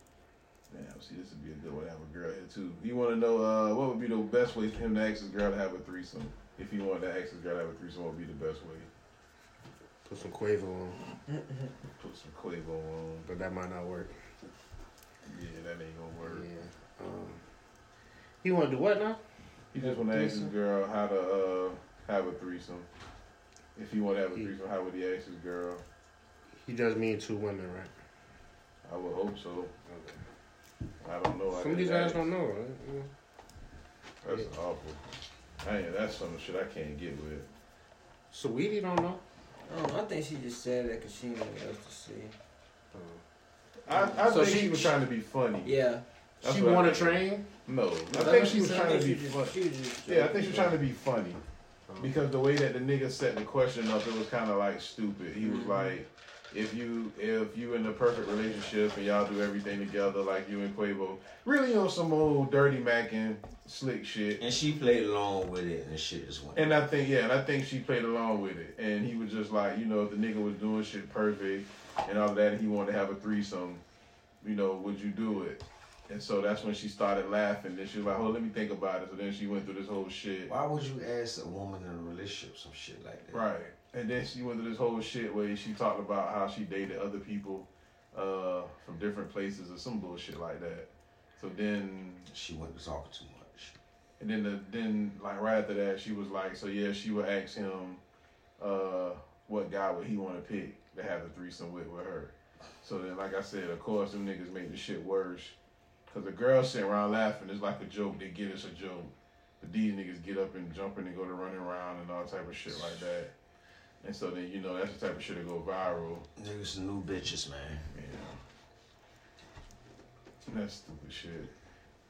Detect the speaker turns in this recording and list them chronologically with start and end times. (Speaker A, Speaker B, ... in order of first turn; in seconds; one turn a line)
Speaker A: 0.7-8.9
Speaker B: 10.1-11.0
Speaker C: 11.3-11.7
Speaker A: 11.9-13.3
Speaker B: 13.2-14.1
Speaker A: 15.2-16.5
Speaker B: 16.2-17.4
Speaker B: 18.4-19.2
Speaker A: 19.7-22.9
Speaker C: 19.8-20.5
Speaker A: 23.8-25.8
Speaker B: 26.6-27.9
Speaker A: 28.9-29.7
Speaker B: 29.9-30.2
Speaker A: 31.0-32.3
Speaker B: 31.5-33.1
Speaker A: 34.2-35.0
Speaker A: 35.6-37.5
Speaker B: 38.3-39.2
Speaker C: 39.6-42.4
Speaker B: 42.9-43.2
Speaker A: 43.9-45.8
Speaker C: 43.9-44.3
Speaker B: 44.2-45.0
Speaker C: 45.6-46.0
Speaker B: 46.4-47.5
Speaker A: 46.4-51.4
Speaker C: 48.1-50.8
Speaker B: 48.1-48.9
Speaker B: 51.9-52.1
Speaker A: 52.0-64.4
Speaker C: 55.4-55.9
Speaker D: 64.4-66.7
Speaker A: 66.5-73.8
Speaker A: 74.4-80.5
Speaker D: 80.5-83.5
Speaker A: 83.3-92.3
Speaker D: 92.3-93.8
Speaker A: 94.2-98.0
Speaker A: 98.6-105.6
Speaker A: 106.1-113.3
Speaker A: 114.0-116.3
Speaker D: 116.4-117.8
Speaker A: 117.9-118.4
Speaker A: 120.5-121.5